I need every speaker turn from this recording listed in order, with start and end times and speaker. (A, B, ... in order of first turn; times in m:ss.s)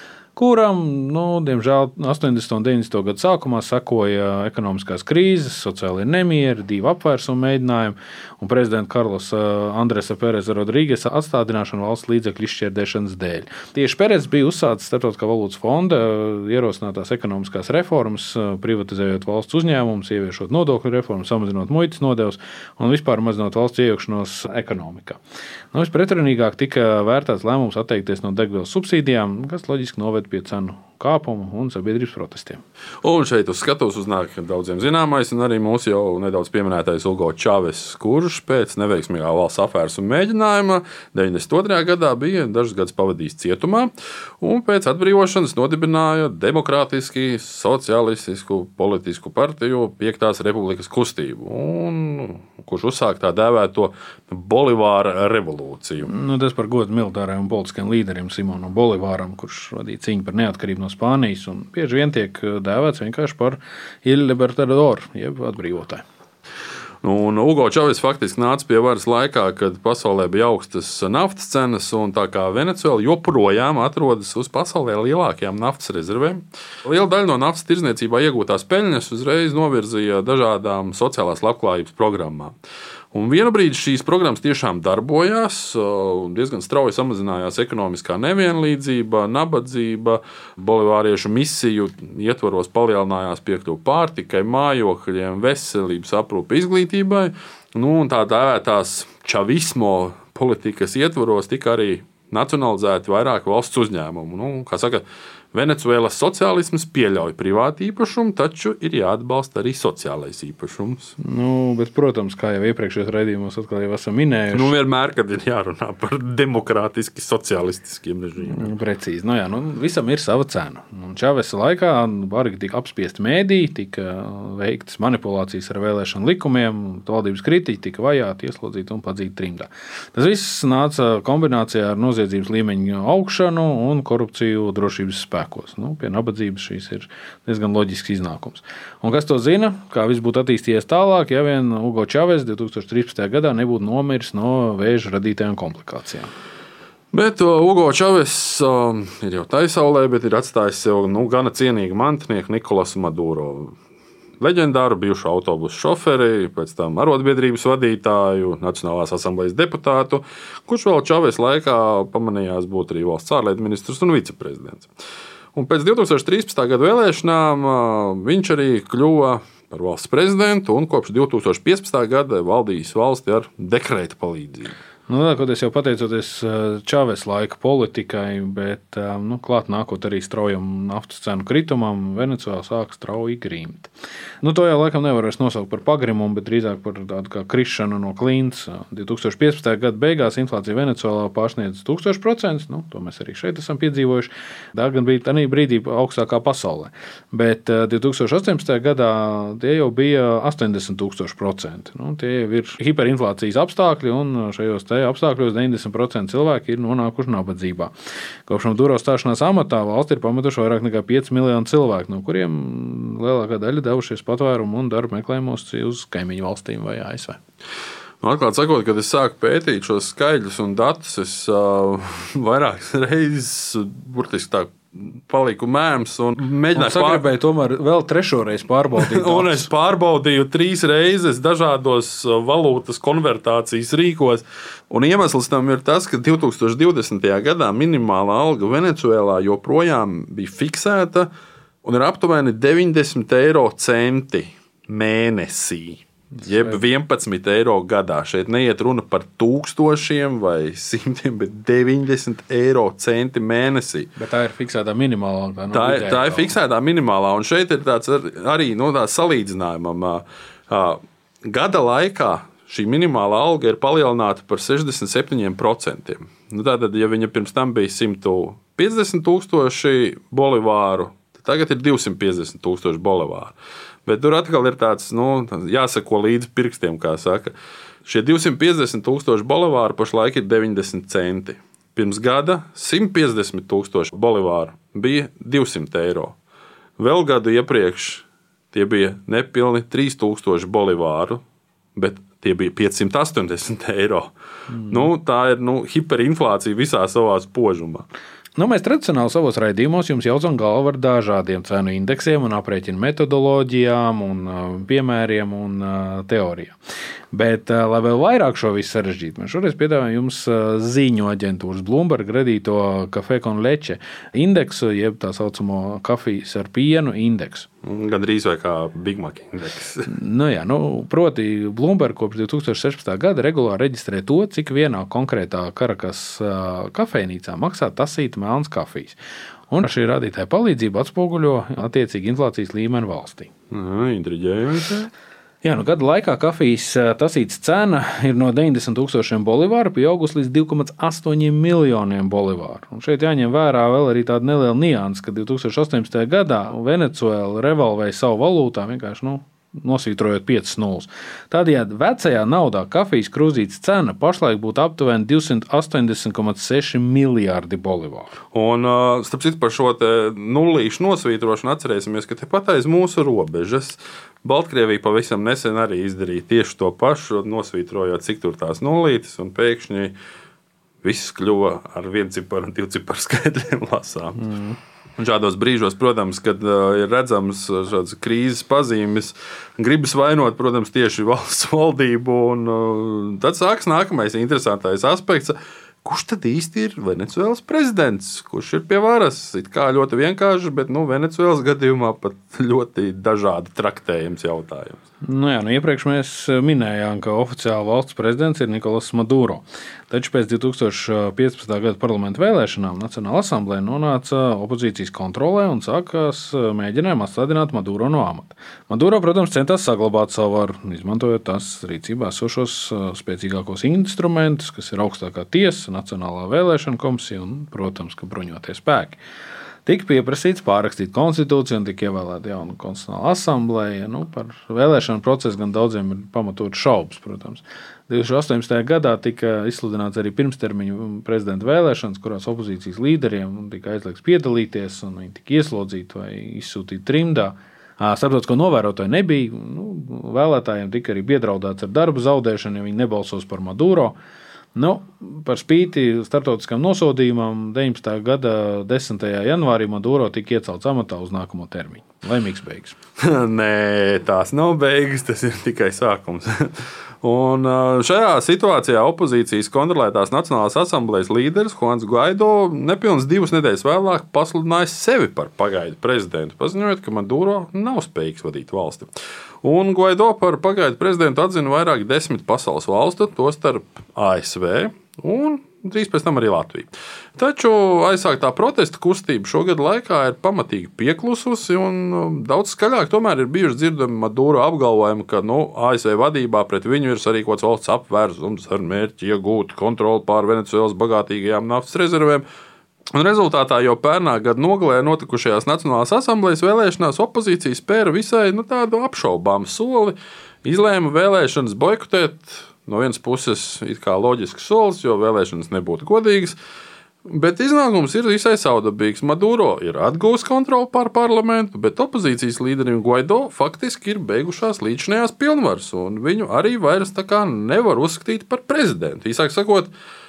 0:00.4-0:25.2 A
0:25.7-0:32.6 A
0:33.0-0:56.1 B
0:56.0-1:06.0 A
1:07.0-1:22.6 B
1:23.1-1:51.1 B
1:51.2-1:54.7 A
1:54.5-1:58.7 B
1:58.4-2:26.3 A
2:27.1-2:33.8 B
2:34.4-2:44.9 B
2:45.5-2:54.8 B
2:55.1-3:03.9 A
3:04.4-3:27.9 A
3:28.5-3:37.4 A
3:38.2-3:47.2 B
3:46.7-3:49.7 A
3:49.0-4:01.3 B
4:01.8-4:14.1 B
4:14.2-4:16.5 A
4:15.7-4:33.5 B
4:34.0-4:37.5 B
4:38.0-4:46.3 B
4:47.0-4:51.4 B
4:51.9-4:54.3 B
4:54.7-4:55.1 A
4:54.9-4:58.1 B
4:58.6-5:06.8 A
5:07.3-5:17.7 A
5:17.8-5:20.1 B
5:20.1-5:29.2 A
5:29.7-5:33.5 A
5:33.7-5:35.1 B
5:35.6-5:58.3 A
5:58.5-6:10.2 B
6:11.0-6:14.4 B
6:14.4-6:14.8 A
6:15.2-6:35.0 B
6:35.2-6:59.2 A
6:59.8-7:24.2 A
7:24.7-7:32.9 A
7:33.2-7:36.7 B
7:37.2-7:49.1 B
7:49.6-8:12.4 B
8:13.1-8:26.6 B
8:27.2-8:39.9 B